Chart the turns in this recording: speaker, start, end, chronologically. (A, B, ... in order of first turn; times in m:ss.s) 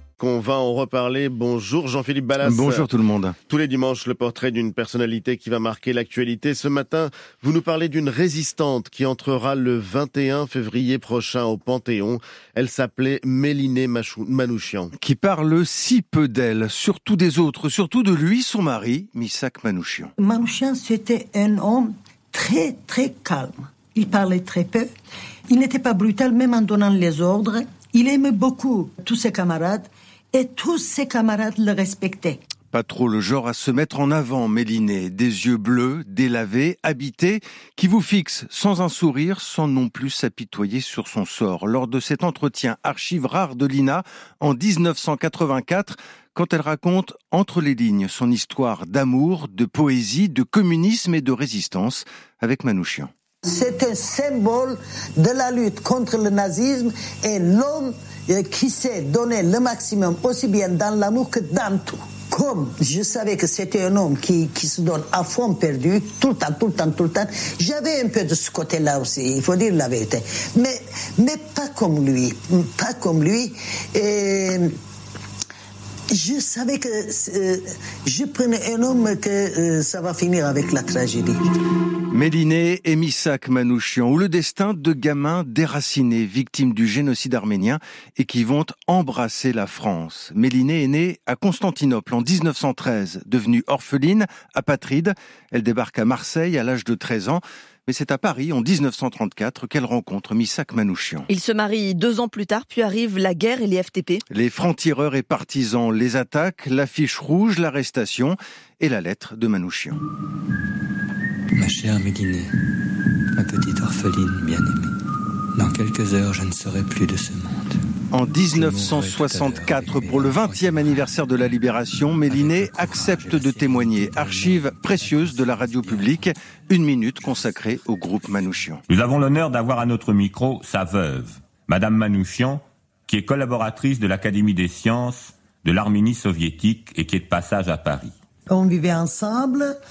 0:00.2-0:02.9 A
0:02.4-0:03.4 B
0:03.5-0:14.9 A
0:15.0-0:20.1 B
0:20.2-0:24.9 C
0:25.5-0:32.4 C
0:32.7-0:53.1 B
0:53.4-1:14.7 C
1:16.1-1:21.5 C
1:22.1-1:41.3 B
1:41.3-1:44.2 D
1:44.3-1:50.0 B
1:51.6-1:52.5 E
1:53.3-1:55.0 E
1:55.6-1:57.8 E
1:58.1-2:08.8 B
1:58.5-2:01.1 E
2:02.3-2:06.3 E
2:08.9-2:18.1 F
2:18.5-2:19.7 C